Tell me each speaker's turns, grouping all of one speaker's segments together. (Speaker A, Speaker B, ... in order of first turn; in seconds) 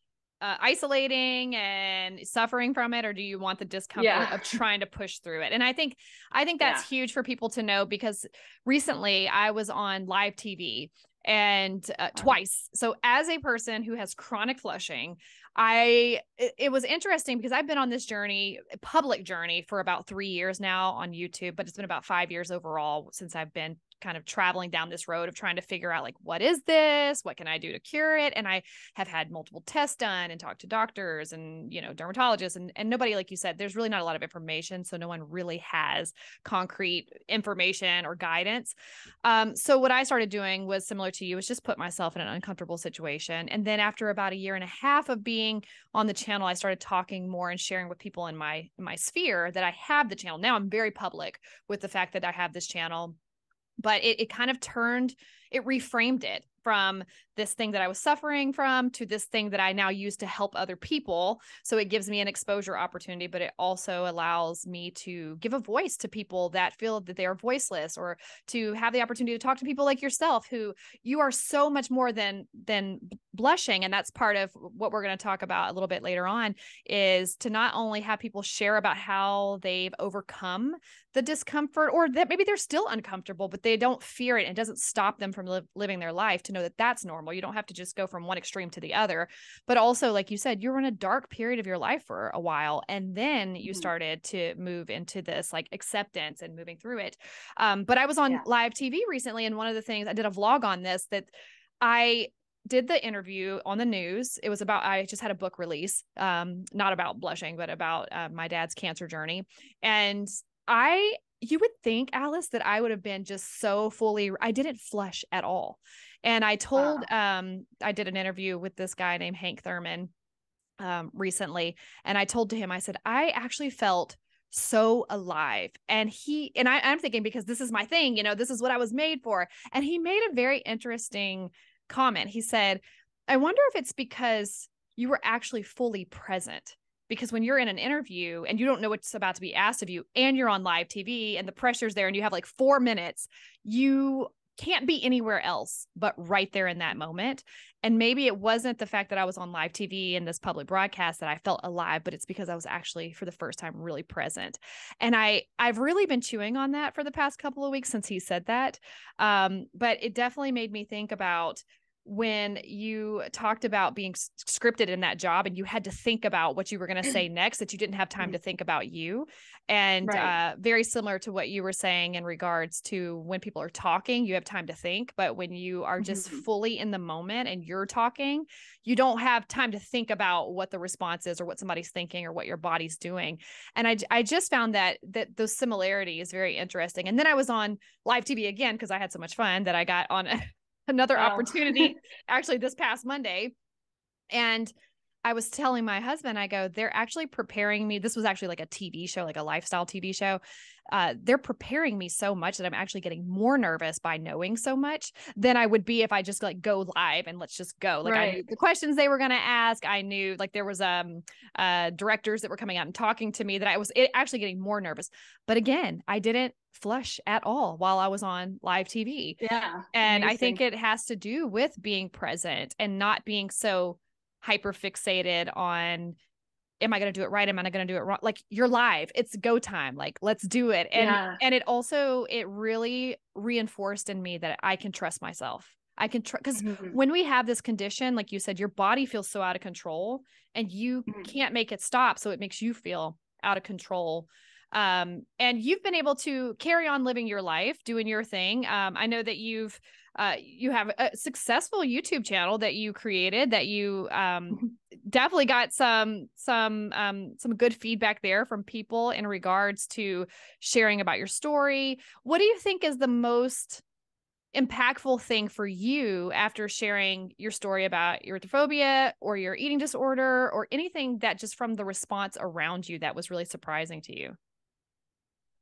Speaker A: 0.4-53.1, 53.8-120.1, 120.8-193.5, 194.3-194.7, 195.2-219.4, 219.9-226.2, 226.8-263.8, 264.5-274.4
Speaker B: 3.9-4.6, 116.8-117.1, 170.0-170.3, 176.0-176.4, 191.1-191.9, 208.0-208.4, 219.4-220.6, 230.9-231.4, 236.5-237.0